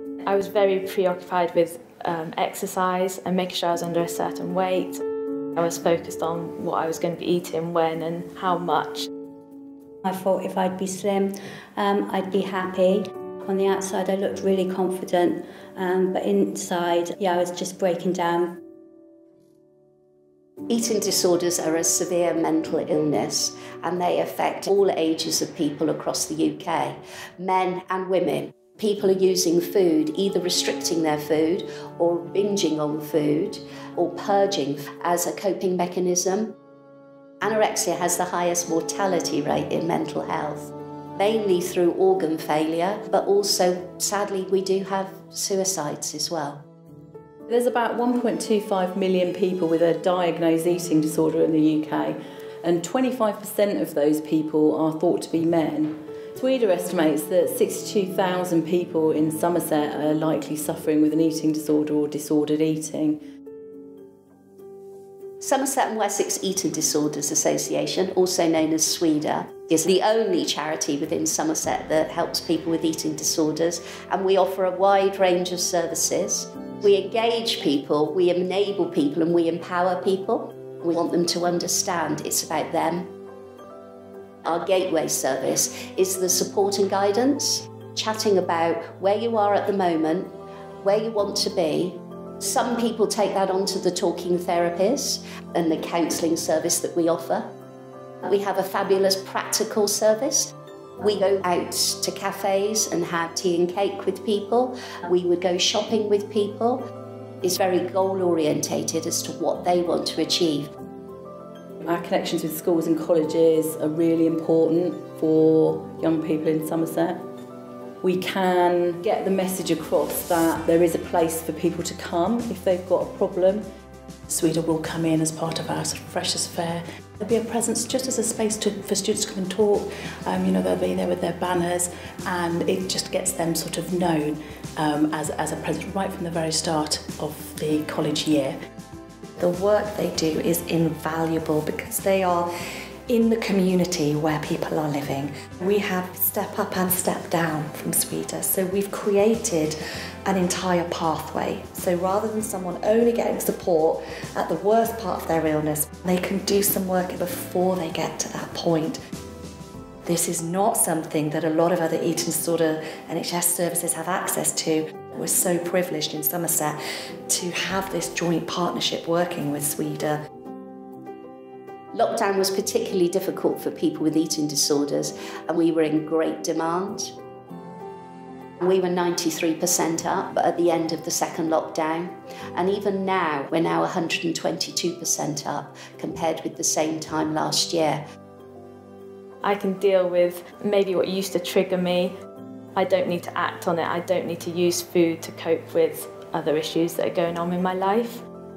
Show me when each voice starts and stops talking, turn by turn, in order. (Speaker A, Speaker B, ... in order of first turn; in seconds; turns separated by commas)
Speaker A: 0.2-5.0, Speaker A: 5.6-9.1, Speaker B: 10.0-18.6, Speaker C: 20.7-36.5, Speaker C: 37.4-46.6, Speaker D: 47.5-63.2, Speaker C: 65.4-83.1, Speaker C: 84.5-97.5, Speaker C: 98.2-106.9, Speaker C: 107.4-110.7, Speaker D: 111.8-117.2, Speaker D: 118.0-123.6, Speaker E: 124.3-138.5, Speaker F: 139.4-142.5, Speaker F: 143.1-149.8, Speaker F: 150.2-159.0, Speaker F: 160.0-166.8, Speaker F: 167.3-170.2, Speaker C: 171.9-177.1, Speaker C: 178.6-188.0, Speaker A: 189.4-192.1, Speaker A: 192.8-198.2